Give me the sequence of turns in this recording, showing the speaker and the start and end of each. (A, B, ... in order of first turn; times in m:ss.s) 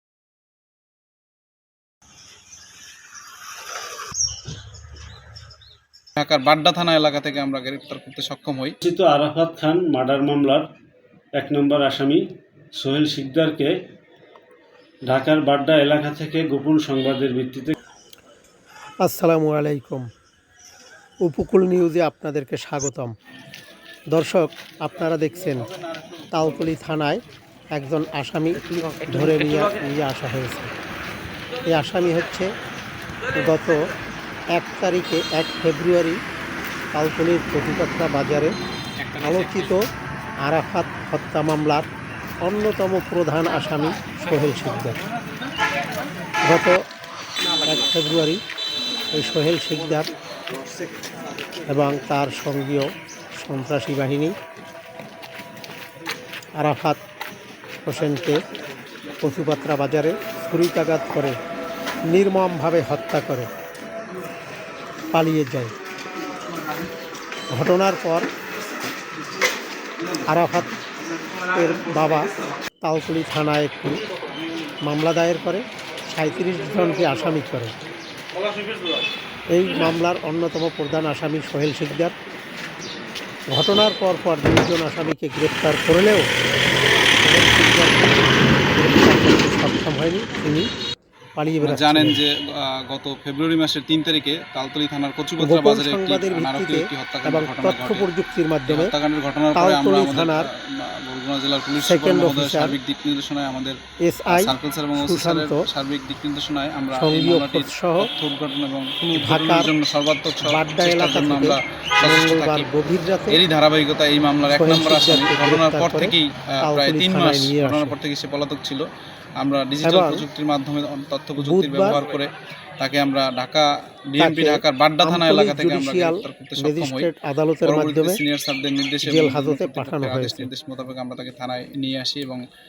0:06.2-0:08.8 A
0:08.8-0:10.7 B
0:11.4-0:12.2 B
0:12.8-0:13.7 B
0:15.1-0:17.7 B
0:19.0-0:20.1 C
0:21.2-0:23.1 C
0:24.1-0:25.7 C
0:26.3-0:27.2 C
0:27.7-0:30.7 C
0:31.6-0:32.5 C
0:33.3-0:33.9 C
0:34.5-0:36.2 C
0:36.9-0:38.5 C
0:39.1-0:39.9 C
0:40.4-0:41.9 C
0:42.4-0:45.0 C
0:46.4-0:46.8 C
0:47.6-0:48.4 C
0:49.2-0:50.1 C
0:51.7-0:54.4 C
0:56.6-0:57.0 C
0:57.8-0:58.4 C
0:59.2-1:01.4 C
1:02.1-1:03.5 C
1:05.1-1:05.7 C
1:07.5-1:08.3 C
1:10.2-1:10.8 C
1:11.5-1:12.3 C
1:12.8-1:14.0 C
1:14.8-1:17.7 C
1:19.5-1:22.1 C
1:23.5-1:26.3 C
1:27.2-1:30.7 C
1:31.4-1:32.2 C
1:31.6-1:38.1 A
1:35.4-1:38.9 C
1:38.7-1:43.8 A
1:39.5-1:40.5 C
1:41.8-1:42.8 C
1:44.0-1:45.6 C
1:44.3-1:52.7 A
1:46.9-1:48.1 C
1:49.0-1:49.7 C
1:50.4-1:53.4 C
1:53.3-1:58.8 A
1:54.5-1:58.0 C
1:59.4-2:07.1 A
1:59.8-2:00.2 C
2:01.4-2:02.0 C
2:04.2-2:08.2 C
2:07.6-2:12.4 A
2:09.0-2:10.5 C